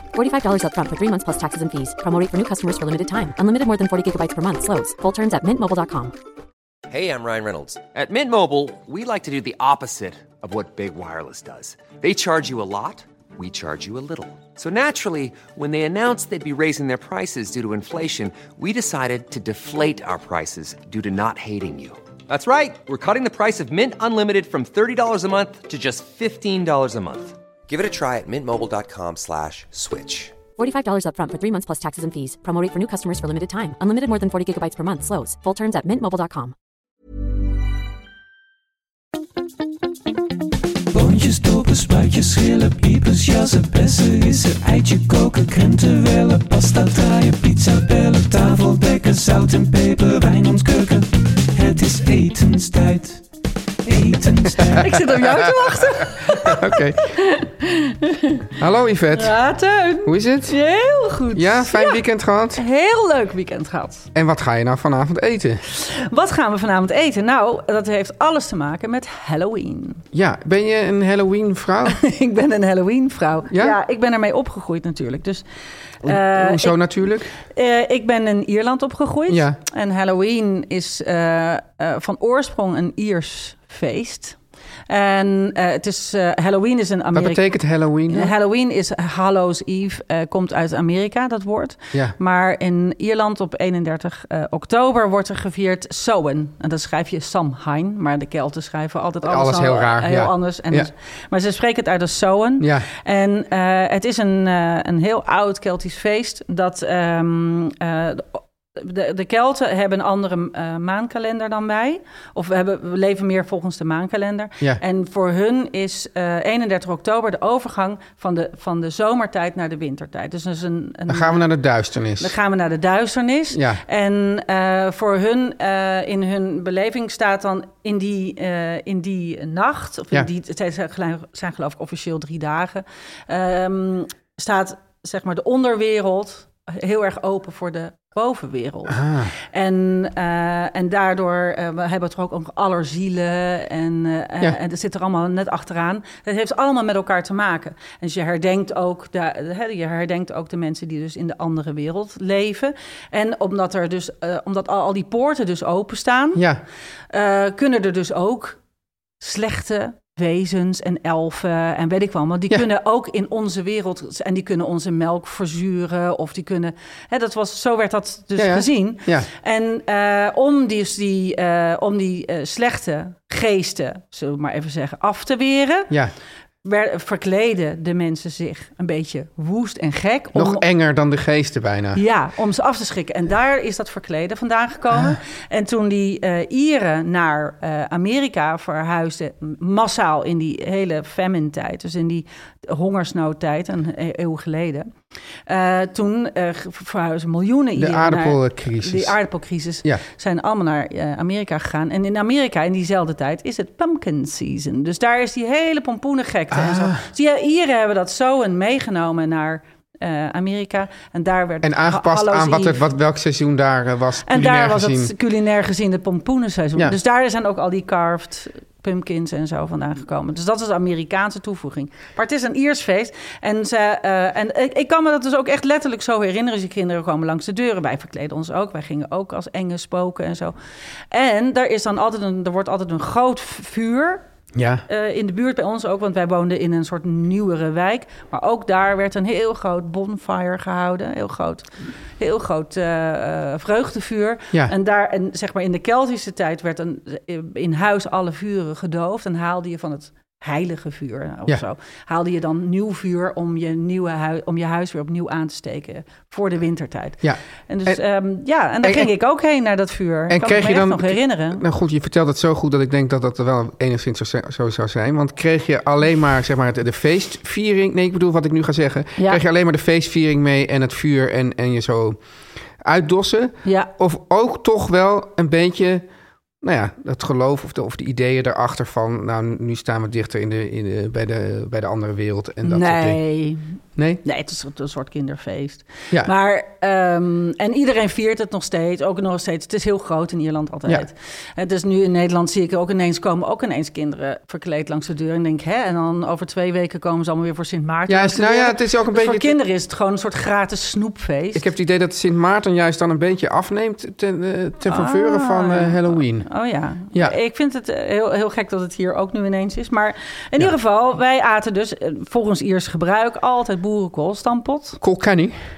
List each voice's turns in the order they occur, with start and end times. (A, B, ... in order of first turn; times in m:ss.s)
0:00.2-0:06.1 A
0:06.9-0:30.4 B
0:30.6-0:36.5 A
0:40.9-0:53.2 C
0:53.9-0:55.5 C
0:54.7-0:58.5 D
0:56.2-0:57.2 E
0:58.6-0:59.4 E
0:59.1-1:02.0 D
1:00.0-1:00.6 E
1:01.4-1:02.6 E
1:02.6-1:04.1 D
1:04.1-1:05.6 E
1:05.7-1:10.0 D
1:10.1-1:12.0 E
1:11.9-1:15.4 D
1:13.5-1:13.8 E
1:16.0-1:16.8 D
1:16.0-1:17.3 E
1:17.4-1:24.4 D
1:19.3-1:19.6 E
1:24.9-1:27.5 D
1:27.1-1:28.3 E
1:28.1-2:01.5 D
1:39.2-1:40.9 E
1:42.6-1:42.9 E
2:01.1-2:02.4 E
2:02.2-2:36.4 D
2:03.5-2:03.8 E
2:18.9-2:19.3 E
2:36.4-2:36.6 E
2:37.1-2:38.6 D
2:39.2-2:55.9 D
2:48.4-2:49.3 E
2:56.6-3:00.6 D
3:00.3-3:02.0 E
3:02.0-3:14.9 D
3:15.5-3:32.9 D
3:17.8-3:19.2 E
3:26.5-3:27.0 E
3:31.6-3:35.1 E
3:34.3-3:50.6 D
3:51.1-3:54.2 D
3:54.5-3:54.8 E
3:54.9-4:01.7 D
4:02.2-4:21.6 D
4:17.2-4:18.0 E
4:18.8-4:19.1 E
4:20.3-4:32.2 E
4:29.2-4:29.4 D
4:32.8-4:36.0 E
4:33.6-4:33.9 D
4:36.6-4:43.2 E
4:42.6-4:43.6 D
4:44.0-4:44.2 E
4:44.2-5:01.7 D
4:58.1-4:59.6 E
5:01.5-5:06.5 E
5:04.9-5:15.0 D
5:15.0-5:15.6 E